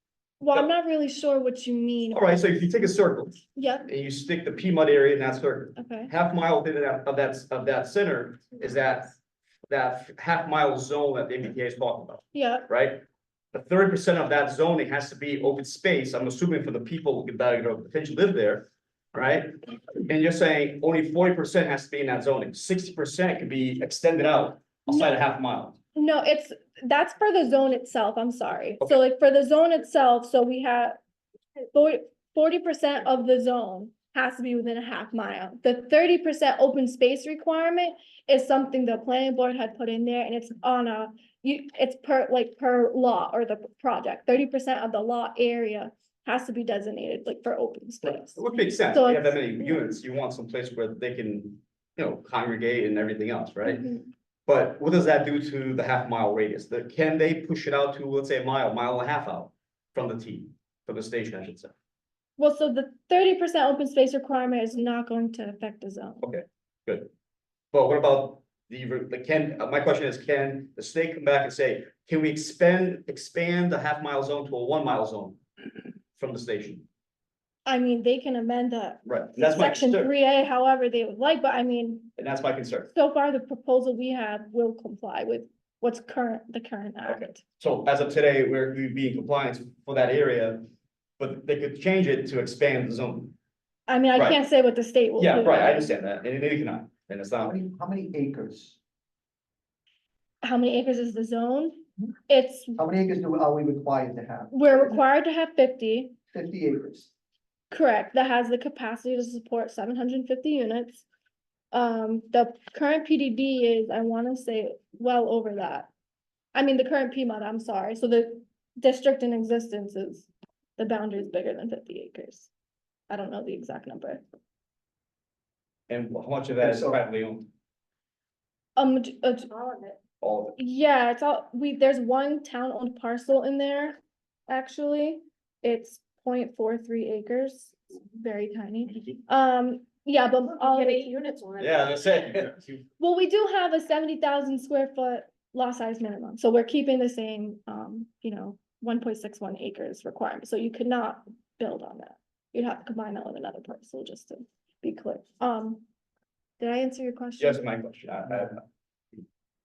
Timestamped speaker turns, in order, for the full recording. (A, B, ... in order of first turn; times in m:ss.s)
0:00.4-0:02.4 A
0:02.1-0:09.1 B
0:03.6-0:03.8 A
0:05.8-0:06.1 A
0:09.7-0:25.8 B
0:12.3-0:12.7 A
0:24.9-0:25.1 A
0:25.9-0:31.0 A
0:31.7-0:49.8 A
0:48.0-0:53.8 B
0:53.6-0:54.1 A
0:54.5-1:01.7 B
1:02.4-1:06.2 A
1:06.2-1:07.1 B
1:07.7-1:15.4 B
1:16.2-1:16.8 B
1:17.6-1:22.1 A
1:19.0-1:20.1 B
1:22.2-1:22.9 B
1:22.9-1:27.4 A
1:27.0-1:30.7 B
1:31.2-1:33.3 B
1:33.9-1:35.9 A
1:34.1-1:34.4 B
1:35.2-1:37.6 B
1:37.4-1:38.8 C
1:40.4-1:42.8 A
1:42.8-1:45.0 C
1:44.5-1:46.1 A
1:46.3-1:47.1 C
1:47.7-1:51.0 A
1:51.7-1:55.9 A
1:56.5-2:02.5 A
2:03.1-2:04.2 A
2:05.9-2:07.5 B
2:06.6-2:07.0 C
2:08.8-2:09.5 A
2:09.5-2:10.0 D
2:10.2-2:10.6 B
2:10.6-2:21.1 A
2:20.5-2:22.2 D
2:21.6-2:22.8 B
2:23.0-2:35.8 A
2:36.6-2:37.6 A
2:37.4-2:38.6 B